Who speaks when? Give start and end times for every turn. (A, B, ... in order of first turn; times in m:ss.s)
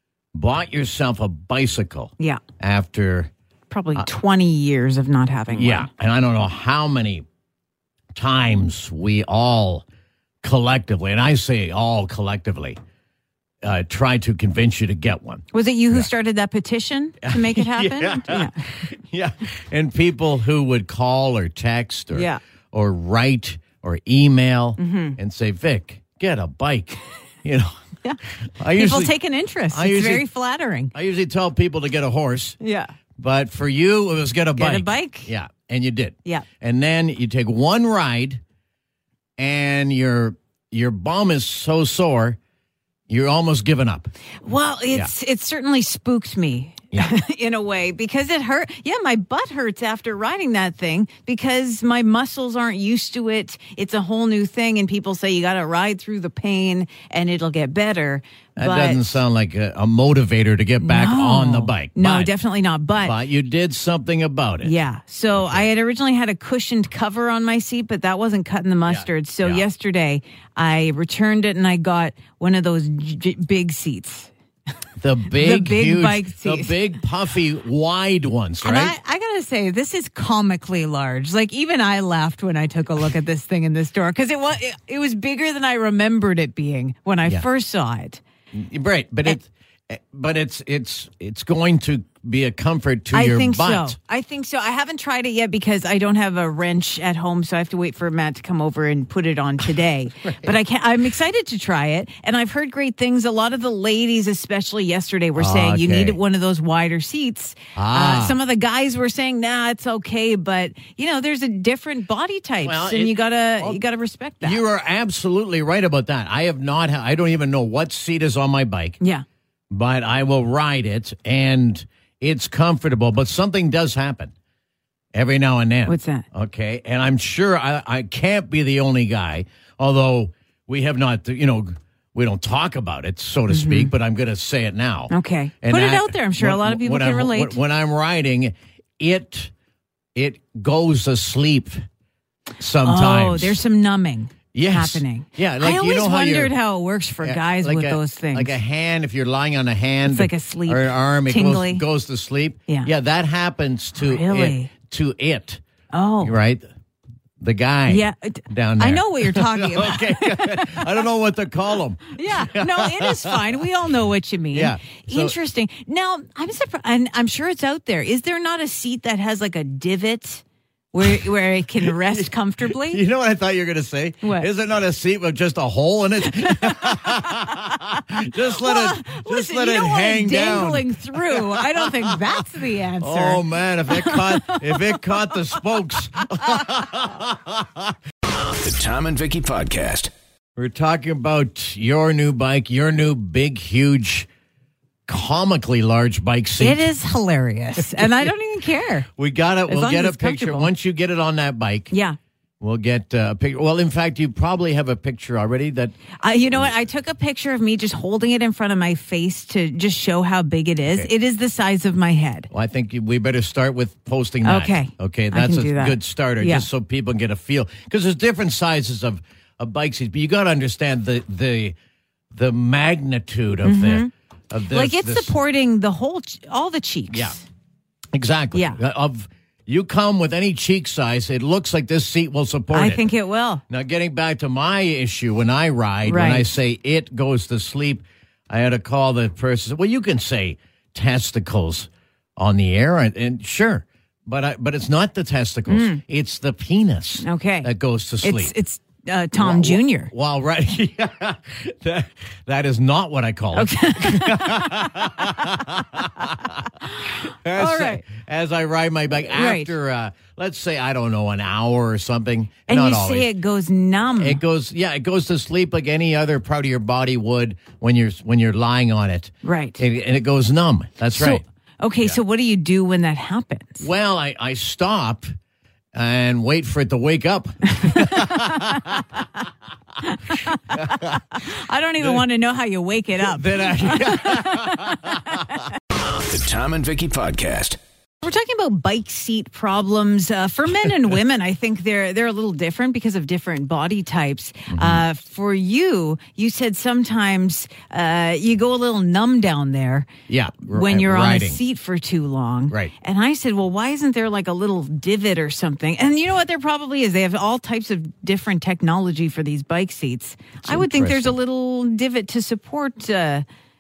0:00.3-0:03.3 A
0:03.7-0:05.9 B
0:05.5-0:07.2 A
0:08.2-0:09.8 A
0:10.4-0:12.8 A
0:13.6-0:16.1 A
0:15.5-0:18.6 B
0:17.2-0:27.8 A
0:22.1-0:22.4 B
0:24.8-0:25.2 B
0:28.6-0:29.2 A
0:28.7-0:30.9 B
0:29.7-0:30.3 A
0:30.9-0:32.6 A
0:32.6-0:32.9 B
0:33.2-0:38.4 A
0:34.6-0:35.3 B
0:39.4-0:42.4 A
0:43.1-0:44.1 A
0:44.4-0:59.2 B
0:58.6-1:02.4 A
1:00.8-1:03.2 B
1:03.0-1:04.8 A
1:04.6-1:14.3 B
1:05.3-1:05.7 A
1:08.9-1:09.7 A
1:15.0-1:19.0 A
1:15.3-1:16.9 B
1:18.6-1:28.2 B
1:28.5-1:34.0 A
1:33.1-1:54.6 B
1:45.4-1:46.2 A
1:47.8-1:48.4 A
1:52.6-1:53.8 A
1:54.4-1:59.0 A
1:59.0-1:59.2 B
1:59.7-2:04.3 A
2:05.1-2:19.5 A
2:05.9-2:06.3 B
2:13.5-2:13.9 B
2:15.1-2:17.6 B
2:20.2-2:21.8 A
2:22.6-2:23.6 A
2:22.8-2:28.6 B
2:24.5-2:26.6 A
2:27.2-2:35.6 A
2:30.0-2:31.8 B
2:34.0-2:34.7 B
2:35.9-2:36.4 B
2:36.2-2:36.6 A
2:37.4-2:43.6 A
2:37.9-2:41.0 B
2:42.1-2:53.0 B
2:44.5-2:45.4 A
2:51.8-3:02.4 A
2:54.2-2:54.5 B
2:56.3-3:06.7 B
3:03.0-3:07.9 A
3:08.3-3:10.1 C
3:10.6-3:14.3 A
3:15.1-3:16.9 A
3:16.6-3:19.1 B
3:19.2-3:21.9 A
3:19.7-3:20.7 B
3:21.9-3:22.2 B
3:22.6-3:26.8 A
3:26.2-3:32.5 B
3:30.8-3:31.1 A
3:32.5-3:41.8 A
3:34.4-3:36.7 B
3:42.3-3:45.4 A
3:43.6-3:44.1 B
3:44.7-3:47.4 B
3:47.1-3:47.4 A
3:48.1-3:53.1 A
3:48.5-3:48.8 B
3:52.7-3:53.6 B
3:53.7-4:08.5 A
3:56.0-3:56.5 B
4:05.7-4:06.0 B
4:07.2-4:07.7 B
4:08.2-4:10.1 B
4:09.4-4:16.7 A
4:13.5-4:15.6 B
4:17.0-4:18.0 B
4:17.3-4:23.3 A
4:19.4-4:19.7 B
4:22.7-4:24.4 B
4:24.2-4:31.4 A
4:29.4-4:29.8 B
4:31.1-4:33.9 B
4:33.8-4:35.3 A
4:36.0-4:39.0 A
4:37.8-4:39.0 B
4:40.0-4:45.7 B
4:40.7-4:41.1 A
4:43.3-4:45.4 A
4:46.1-4:47.8 C
4:48.2-5:00.1 B
4:54.7-4:55.0 A
5:00.3-5:01.6 A
5:00.7-5:13.4 B
5:10.6-5:11.4 A